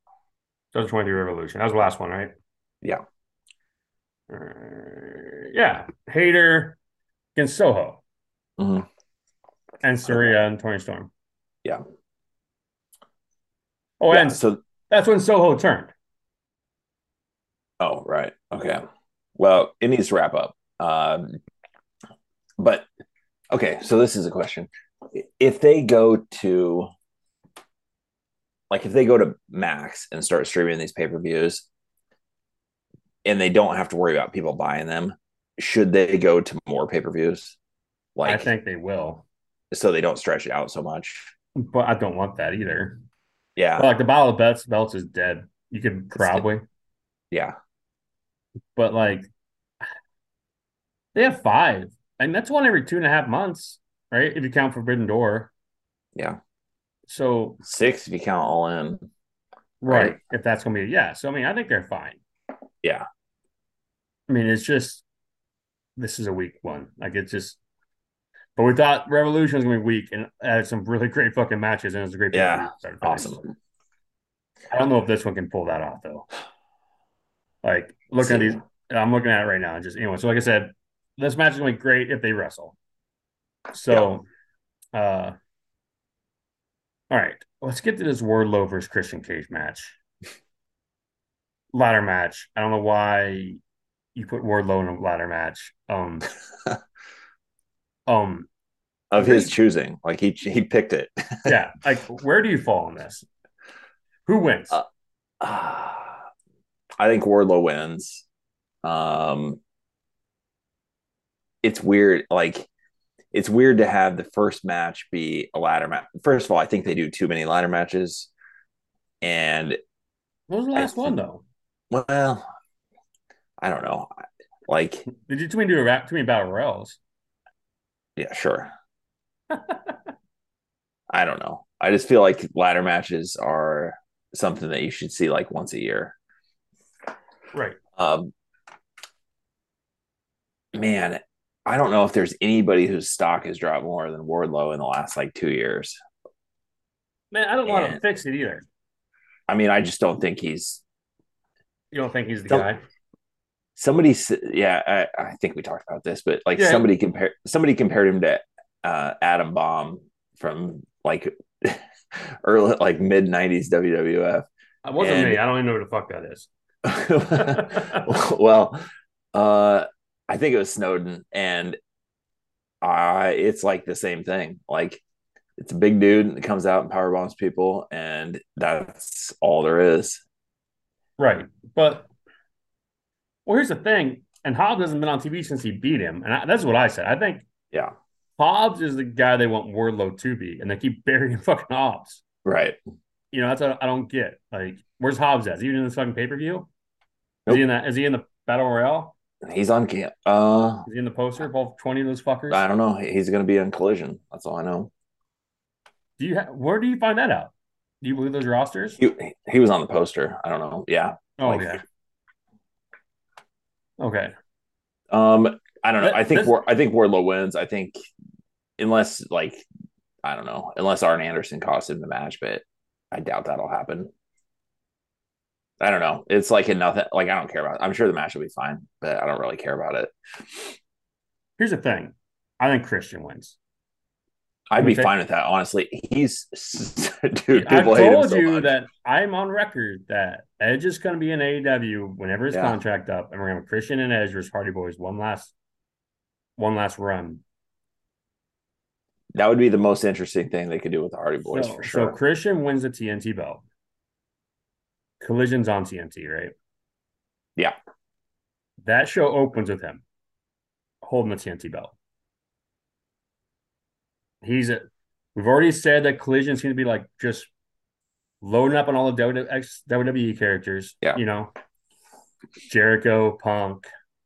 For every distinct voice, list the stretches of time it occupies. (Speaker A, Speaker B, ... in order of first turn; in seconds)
Speaker A: 0.7-2.3, 4.3-6.8, 7.3-8.0, 9.8-11.1, 14.0-15.9, 38.2-39.2, 41.5-43.0, 43.8-46.6, 48.8-49.3, 51.1-55.5, 57.1-57.6, 59.8-62.2, 64.3-65.0, 66.0-67.6, 68.5-73.4, 74.7-76.3, 77.6-82.8, 83.7-84.2, 84.9-85.3, 87.1-90.0, 91.7-93.6, 94.1-96.3, 98.1-98.5, 99.2-99.5, 101.5-103.2, 104.3-104.8, 120.5-121.4, 125.2-127.0, 129.5-129.9, 147.3-148.6, 151.9-152.8, 156.6-156.9, 164.8-166.5, 167.3-168.1, 181.2-182.1, 183.4-187.4, 188.4-192.2, 193.3-196.7, 197.5-199.1, 200.9-202.6, 206.2-209.0, 211.4-211.8, 214.0-214.3, 216.0-216.5, 231.6-233.6, 234.8-235.1, 237.5-245.5, 246.6-247.4, 251.4-253.6, 255.2-256.5, 258.8-260.0, 261.0-261.9, 264.4-264.8, 265.3-267.5, 268.4-271.5, 272.7-273.9
Speaker B: 8.6-8.9, 10.1-10.3, 14.1-14.6, 17.8-18.8, 19.4-21.4, 22.6-22.9, 23.5-26.9, 28.7-31.6, 33.2-37.6, 38.1-38.5, 39.7-41.3, 43.5-43.9, 46.1-46.4, 57.6-59.0, 59.9-60.2, 72.3-73.4, 78.2-78.6, 99.1-101.5, 105.4-106.2, 107.0-108.2, 108.8-109.6, 111.6-112.7, 113.3-118.3, 119.2-119.8, 120.8-121.1, 121.9-122.4, 123.6-124.1, 124.7-125.0, 128.2-128.7, 131.1-136.1, 137.9-138.3, 140.7-145.9, 147.7-148.0, 149.5-150.8, 153.8-164.4, 165.0-165.4, 166.8-168.8, 169.3-171.8, 172.8-175.0, 175.6-180.2, 192.4-192.8, 199.4-200.9, 202.5-204.9, 209.0-211.8, 215.1-217.9, 218.8-219.6, 220.2-224.1, 225.8-230.8, 234.7-238.7, 242.5-242.8, 249.3-252.2